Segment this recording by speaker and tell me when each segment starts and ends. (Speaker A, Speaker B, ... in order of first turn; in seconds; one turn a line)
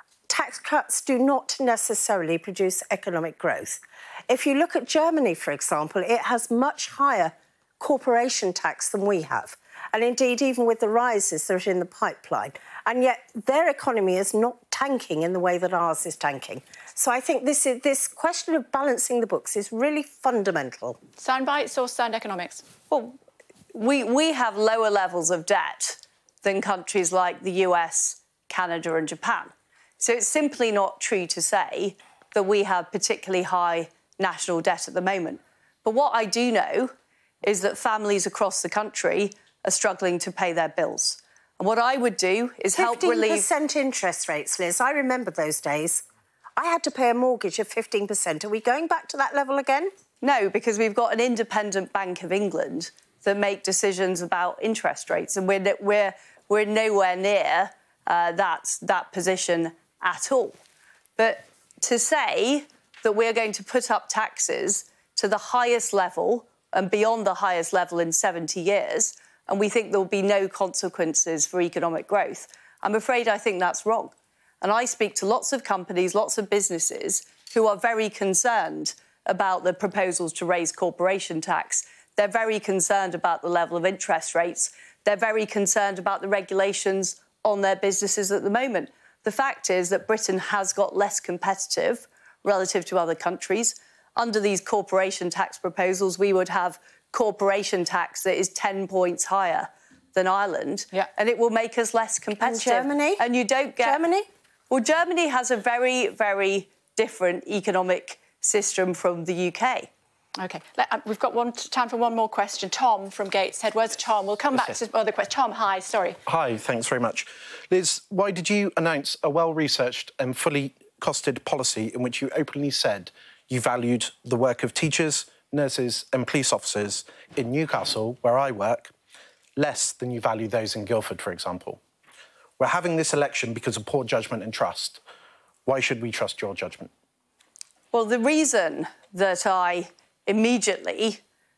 Speaker A: 0.3-21.0
Speaker B: 21.2-22.6
Speaker C: 22.9-23.1
Speaker C: 23.7-43.5
Speaker A: 42.8-46.0
Speaker A: 46.6-49.9
Speaker C: 50.2-60.6
Speaker C: 61.2-104.0
Speaker A: 102.4-103.2
Speaker A: 103.8-104.3
Speaker C: 104.7-109.9
Speaker B: 110.4-116.2
Speaker D: 116.2-128.9
Speaker D: 129.6-131.8
Speaker D: 132.6-135.0
Speaker D: 135.7-136.9
Speaker C: 137.9-141.2